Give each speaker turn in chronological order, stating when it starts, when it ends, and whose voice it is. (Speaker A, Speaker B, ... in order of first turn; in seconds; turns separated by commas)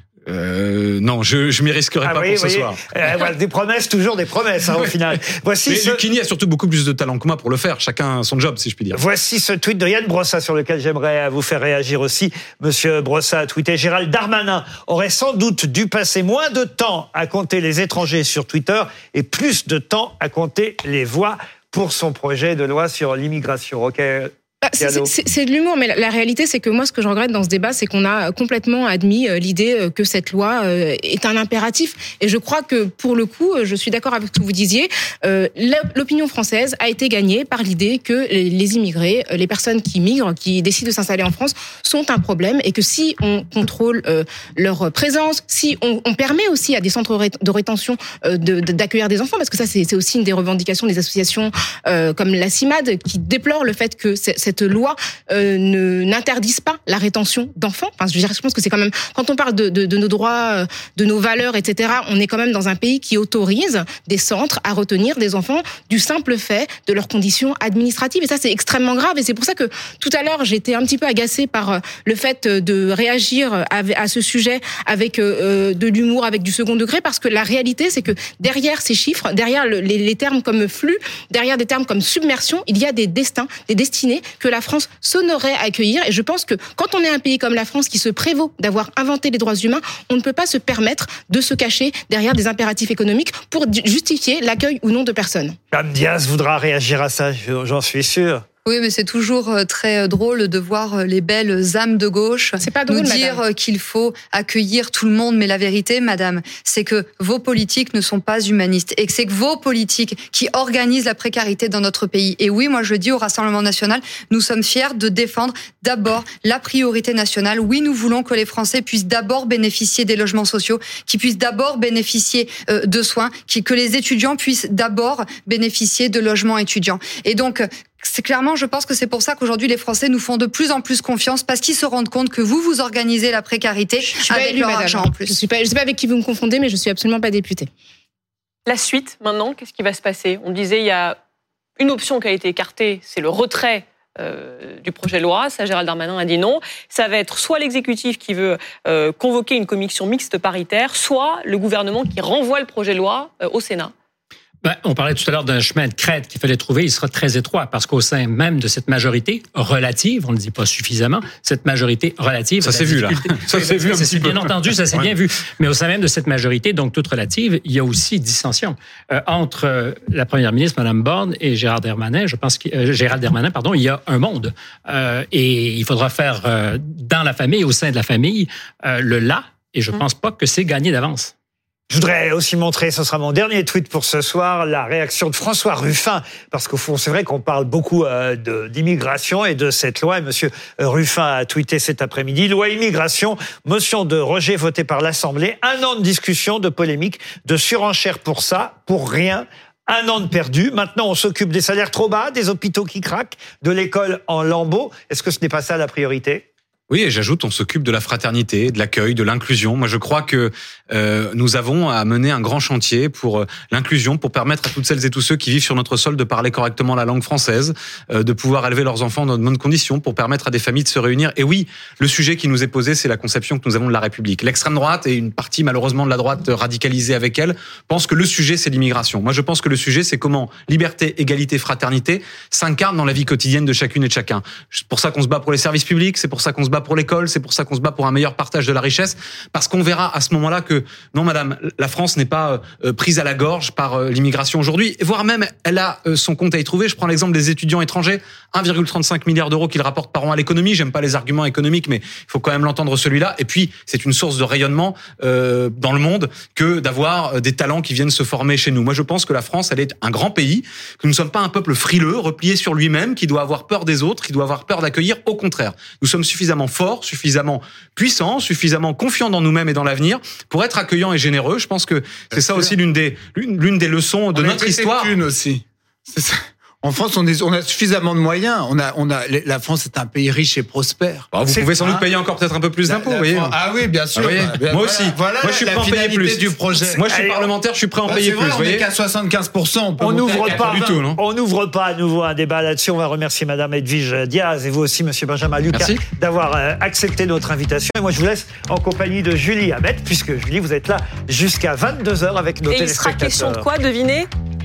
Speaker A: 0.3-2.8, Speaker B: 2.0-6.0, Speaker A: 5.7-9.0, Speaker B: 8.9-25.1, Speaker C: 24.6-95.6, Speaker B: 95.7-98.4, Speaker D: 98.6-135.4, Speaker C: 102.6-103.4, Speaker C: 134.1-137.7, Speaker E: 138.7-141.2, Speaker E: 141.8-153.9, Speaker F: 154.6-181.3, Speaker A: 162.6-165.1, Speaker B: 181.9-206.4, Speaker A: 206.9-275.1, Speaker G: 272.3-272.8, Speaker G: 274.3-282.1, Speaker A: 281.3-283.5, Speaker G: 282.8-287.0, Speaker A: 284.1-288.8, Speaker B: 287.1-287.5, Speaker G: 288.0-290.8, Speaker B: 290.0-303.6, Speaker A: 290.4-291.2, Speaker A: 295.7-296.0, Speaker E: 302.7-304.3